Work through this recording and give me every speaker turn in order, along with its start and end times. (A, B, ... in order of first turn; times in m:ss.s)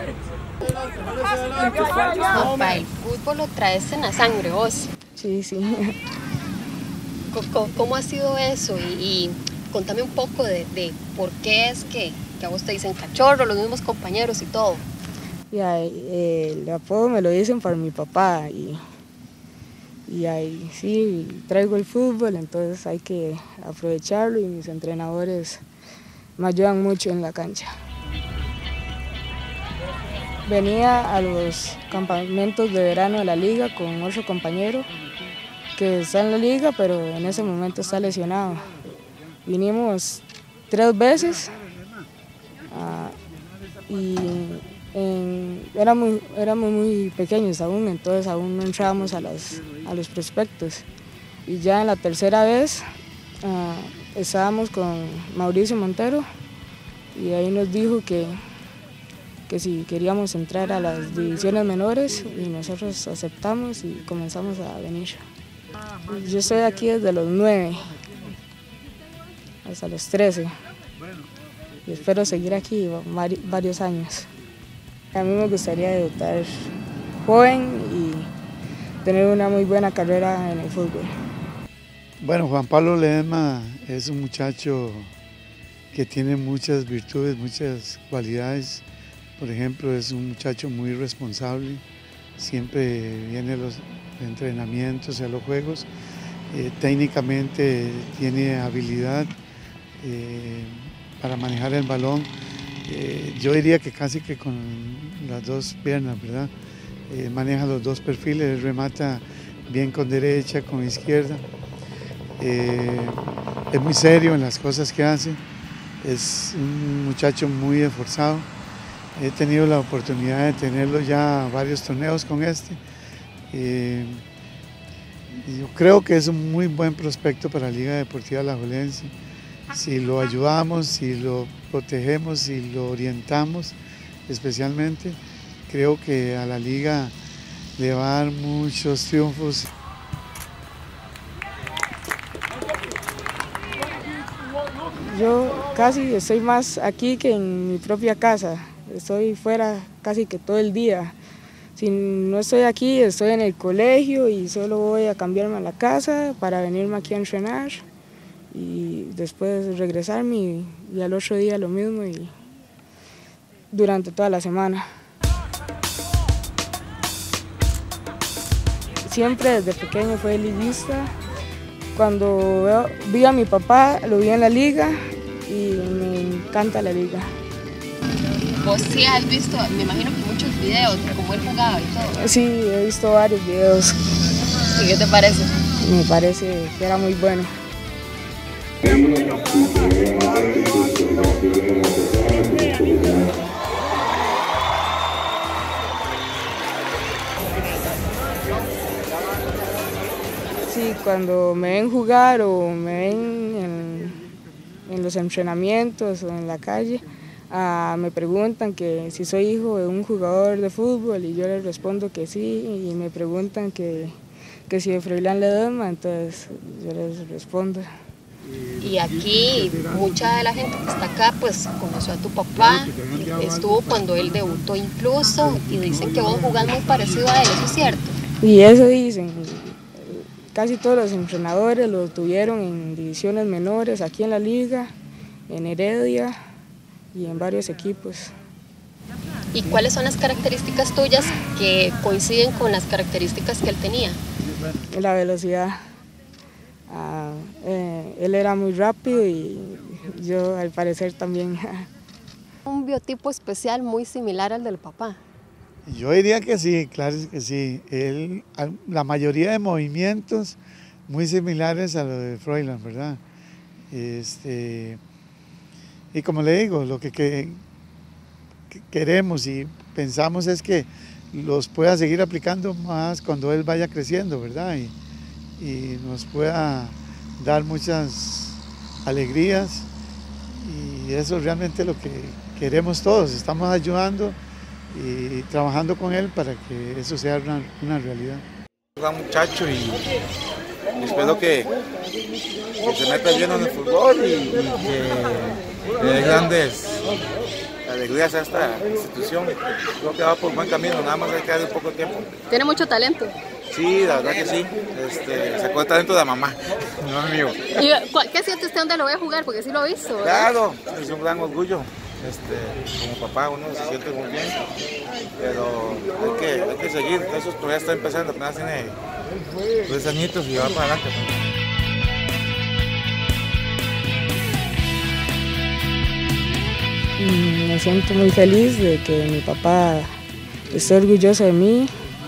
0:00.7-0:04.9 A
0:05.2-0:05.9 B
0:07.3-0:14.8 A
0:15.5-0:18.8 B
0:20.1-0:25.6 B
0:26.4-0:27.7 B
0:30.4-0:34.9 B
0:35.7-0:38.7 B
0:39.4-0:41.6 B
0:42.7-0:43.2 B
0:43.8-0:50.8 B
0:51.4-0:52.8 B
0:53.4-0:56.2 B
0:57.1-0:58.4 B
0:59.5-1:05.2 B
1:06.1-1:07.9 B
1:09.6-1:10.5 B
1:11.8-1:14.3 B
1:15.1-1:16.7 B
1:17.2-1:18.3 B
1:19.0-1:21.1 B
1:22.2-1:25.1 C
1:25.9-1:28.8 C
1:29.4-1:31.8 C
1:32.4-1:35.9 C
1:36.5-1:39.3 C
1:40.0-1:42.3 C
1:42.8-1:46.5 C
1:47.1-1:51.4 C
1:52.4-1:55.4 C
1:56.0-1:58.5 C
1:59.2-2:02.8 C
2:03.5-2:04.2 C
2:05.4-2:09.1 C
2:09.7-2:17.1 C
2:17.8-2:19.7 C
2:25.0-2:31.1 B
2:31.7-2:37.8 B
2:38.5-2:42.3 B
2:43.7-2:44.8 B
2:49.0-2:51.1 B
2:51.9-2:57.3 B
2:58.6-3:02.1 A
3:02.2-3:04.0 B
3:04.7-3:05.5 A
3:05.8-3:07.5 B
3:08.8-3:13.3 D
3:20.7-3:24.2 B
3:24.9-3:37.9 B
3:38.8-3:48.2 A
3:48.4-3:54.9 B
3:55.5-3:56.4 B
3:57.1-3:58.4 B
3:59.5-4:04.2 A
4:04.9-4:05.8 B
4:06.9-4:11.9 B
4:12.6-4:15.2 A
4:15.8-4:23.2 C
4:23.9-4:25.0 C
4:26.1-4:27.6 C
4:28.7-4:34.9 C
4:35.6-4:39.9 C
4:40.5-4:44.4 C
4:44.9-4:48.4 C
4:49.0-4:50.1 D
4:51.0-4:51.7 D
4:52.8-4:57.0 D
4:57.8-5:02.4 D
5:02.5-5:03.3 A
5:03.7-5:07.6 D
5:07.7-5:10.5 A
5:10.2-5:14.6 D
5:15.4-5:19.0 D
5:19.8-5:21.4 D
5:27.2-5:30.1 B
5:30.7-5:31.9 B